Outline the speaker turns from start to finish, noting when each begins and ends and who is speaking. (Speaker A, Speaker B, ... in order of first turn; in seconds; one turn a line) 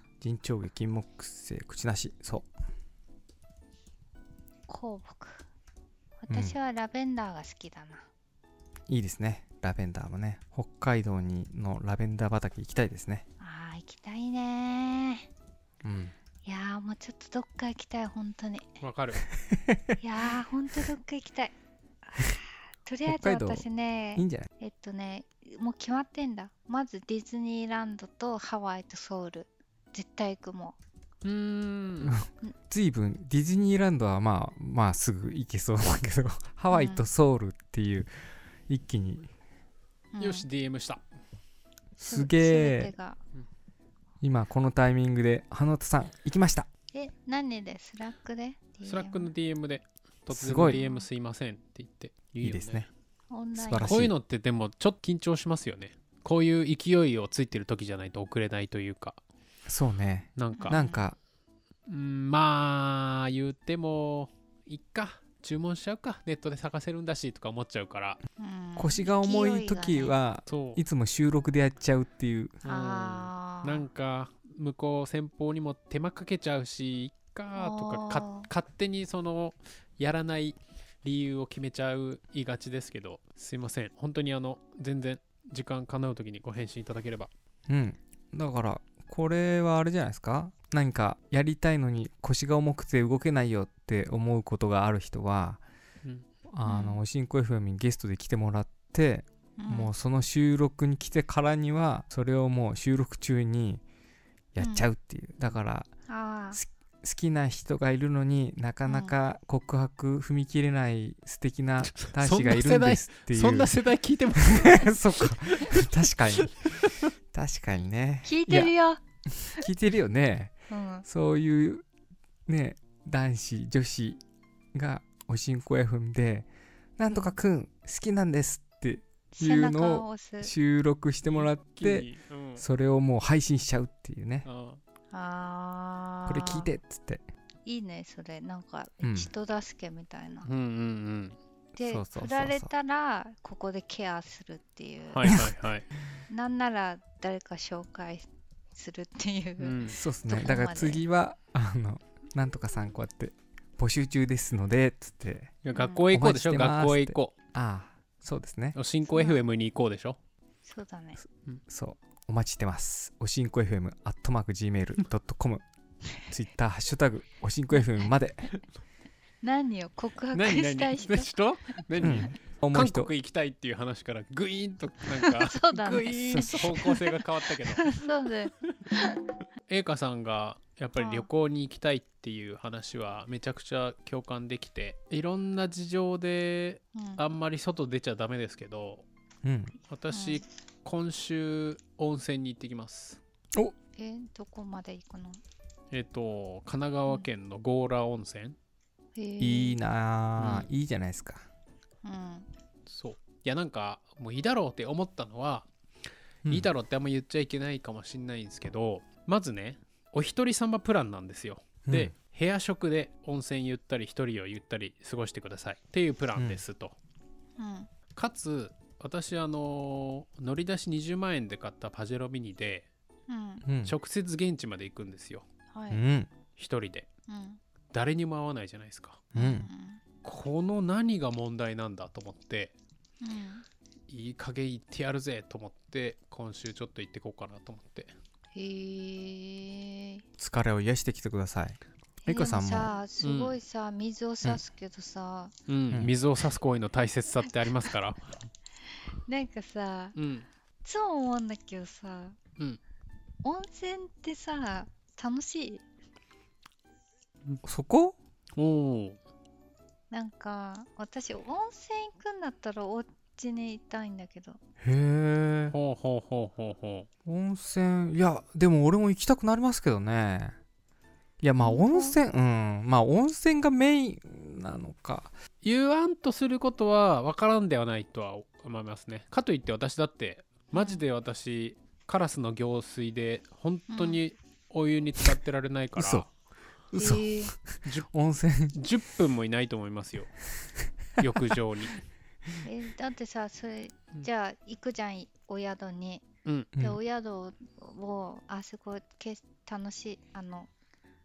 Speaker A: 0.2-2.5
Speaker B: 4.7-5.5
Speaker B: 6.2-8.1
Speaker A: 6.3-6.5
Speaker A: 8.9-13.2
Speaker B: 13.4-15.3
Speaker A: 15.8-16.1
Speaker B: 16.4-18.7
Speaker C: 18.8-19.2
Speaker A: 19.5-19.9
Speaker B: 20.0-21.5
Speaker B: 22.1-30.8
Speaker A: 23.1-24.5
Speaker C: 31.2-32.2
Speaker A: 32.0-38.1
Speaker B: 36.7-37.1
Speaker A: 38.7-39.3
Speaker B: 40.1-40.5
Speaker C: 40.2-41.0
Speaker A: 42.0-42.9
Speaker B: 42.0-43.2
Speaker A: 44.2-46.7
Speaker B: 46.9-49.3
Speaker C: 48.8-52.9
Speaker A: 50.3-50.8
Speaker B: 50.6-51.1
Speaker A: 52.4-52.9
Speaker B: 53.3-54.0
Speaker A: 53.6-54.1
Speaker C: 53.8-59.2
Speaker A: 59.7-61.2
Speaker C: 60.4-60.8
Speaker B: 60.5-61.0
Speaker C: 61.9-68.2
Speaker B: 68.4-70.2
Speaker A: 68.8-72.6
Speaker C: 70.5-70.8
Speaker C: 72.7-87.3
Speaker B: 72.7-73.9
Speaker B: 77.5-78.5
Speaker A: 87.7-95.6
Speaker A: 96.5-103.8
Speaker B: 96.7-97.0
Speaker B: 99.6-99.9
Speaker A: 104.5-105.9
Speaker B: 104.6-104.9
Speaker B: 106.1-106.6
Speaker A: 106.5-113.8
Speaker B: 108.8-109.1
Speaker C: 111.8-115.8
Speaker A: 114.4-118.7
Speaker C: 116.6-117.0
Speaker B: 118.2-119.0
Speaker A: 119.3-121.8
Speaker B: 120.7-121.1
Speaker A: 122.5-124.2
Speaker A: 124.7-134.5
Speaker B: 127.1-127.4
Speaker B: 129.3-130.5
Speaker C: 131.3-132.7
Speaker C: 134.4-134.8
Speaker B: 135.1-136.7
Speaker A: 136.3-137.2
Speaker B: 137.7-140.5
Speaker A: 139.0-139.3
Speaker C: 140.4-141.4
Speaker B: 141.8-145.5
Speaker A: 141.8-142.7
Speaker C: 145.1-145.9
Speaker B: 146.3-151.0
Speaker C: 149.6-150.0
Speaker A: 149.9-155.6
Speaker C: 155.6-157.3
Speaker B: 155.8-156.1
Speaker A: 156.1-158.8
Speaker C: 158.8-160.2
Speaker B: 159.1-159.4
Speaker B: 160.7-161.2
Speaker A: 161.7-165.6
Speaker A: 166.2-168.5
Speaker B: 169.4-171.3
Speaker C: 170.3-178.0
Speaker A: 172.0-173.1
Speaker B: 175.2-179.2
Speaker A: 176.3-176.6
Speaker C: 179.7-189.1
Speaker B: 181.0-181.3
Speaker B: 186.9-187.2
Speaker A: 189.4-189.7
Speaker C: 189.9-193.2
Speaker B: 190.1-190.4
Speaker B: 194.0-195.4
Speaker C: 195.9-198.6
Speaker B: 199.2-199.8
Speaker A: 199.4-201.4
Speaker C: 200.4-200.7
Speaker B: 202.0-202.5
Speaker C: 202.9-205.7
Speaker C: 206.5-217.0
Speaker A: 211.9-212.1
Speaker A: 216.4-216.6
Speaker B: 217.6-217.9
Speaker C: 218.2-222.9
Speaker B: 223.3-223.7
Speaker A: 223.7-224.0
Speaker C: 223.8-225.5
Speaker B: 225.7-226.0
Speaker A: 225.9-226.3
Speaker C: 226.6-227.1
Speaker B: 227.3-227.6
Speaker C: 227.9-229.2
Speaker B: 229.3-230.0
Speaker A: 229.4-229.7
Speaker C: 230.2-232.8
Speaker B: 233.2-233.6
Speaker C: 234.1-238.1
Speaker B: 238.5-240.2
Speaker A: 240.4-242.9
Speaker B: 242.2-245.5
Speaker C: 243.2-243.6
Speaker C: 245.7-248.3
Speaker B: 249.3-250.2
Speaker C: 250.2-250.5
Speaker B: 250.8-252.4
Speaker B: 253.4-255.8
Speaker A: 257.6-258.2
Speaker C: 258.6-259.2
Speaker B: 260.1-264.6
Speaker A: 264.8-265.8
Speaker C: 265.7-267.1
Speaker A: 267.2-270.6
Speaker A: 271.4-275.4
Speaker B: 271.6-272.2
Speaker C: 275.6-286.3
Speaker B: 280.7-281.1
Speaker B: 283.9-284.2
Speaker A: 286.0-286.3
Speaker A: 286.9-288.8
Speaker B: 286.9-287.5
Speaker C: 288.7-290.4
Speaker C: 291.2-292.0
Speaker B: 292.6-296.2
Speaker C: 296.4-296.7
Speaker B: 296.8-300.7